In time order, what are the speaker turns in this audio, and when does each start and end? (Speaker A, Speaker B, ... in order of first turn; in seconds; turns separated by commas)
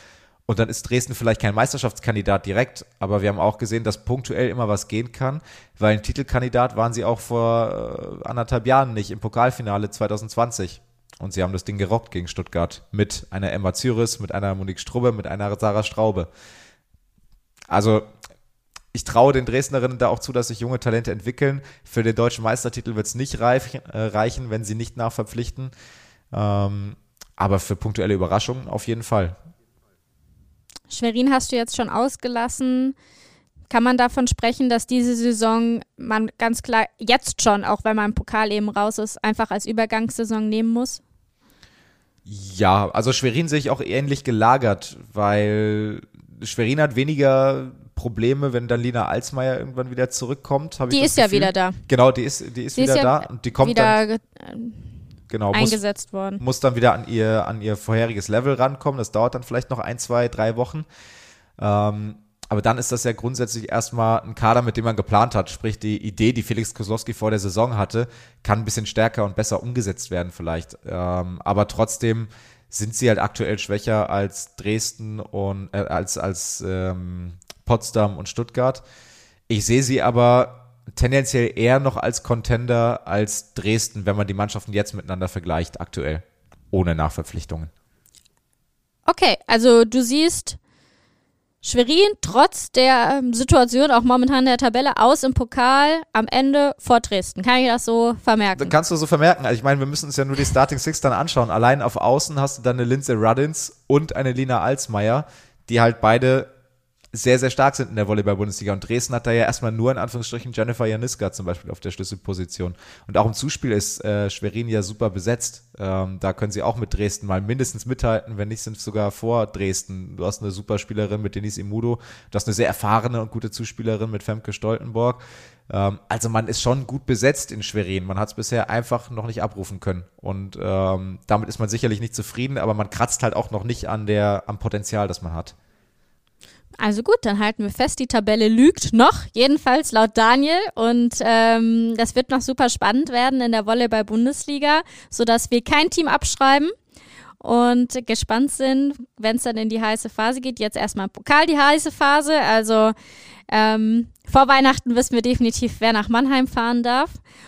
Speaker A: 0.5-16.3, Speaker A: 17.7-18.1, Speaker A: 18.9-25.7, Speaker A: 26.3-29.4, Speaker B: 30.9-32.9, Speaker B: 33.7-41.0, Speaker A: 42.2-54.0, Speaker B: 50.9-51.8, Speaker B: 52.7-54.8, Speaker A: 55.3-55.8, Speaker B: 55.5-56.4, Speaker A: 56.4-60.9, Speaker A: 61.6-78.8, Speaker A: 79.5-87.7, Speaker B: 89.0-90.6, Speaker B: 91.6-98.7, Speaker A: 98.6-106.5, Speaker A: 107.1-135.5, Speaker B: 136.8-146.7, Speaker B: 147.4-152.9, Speaker B: 153.5-157.2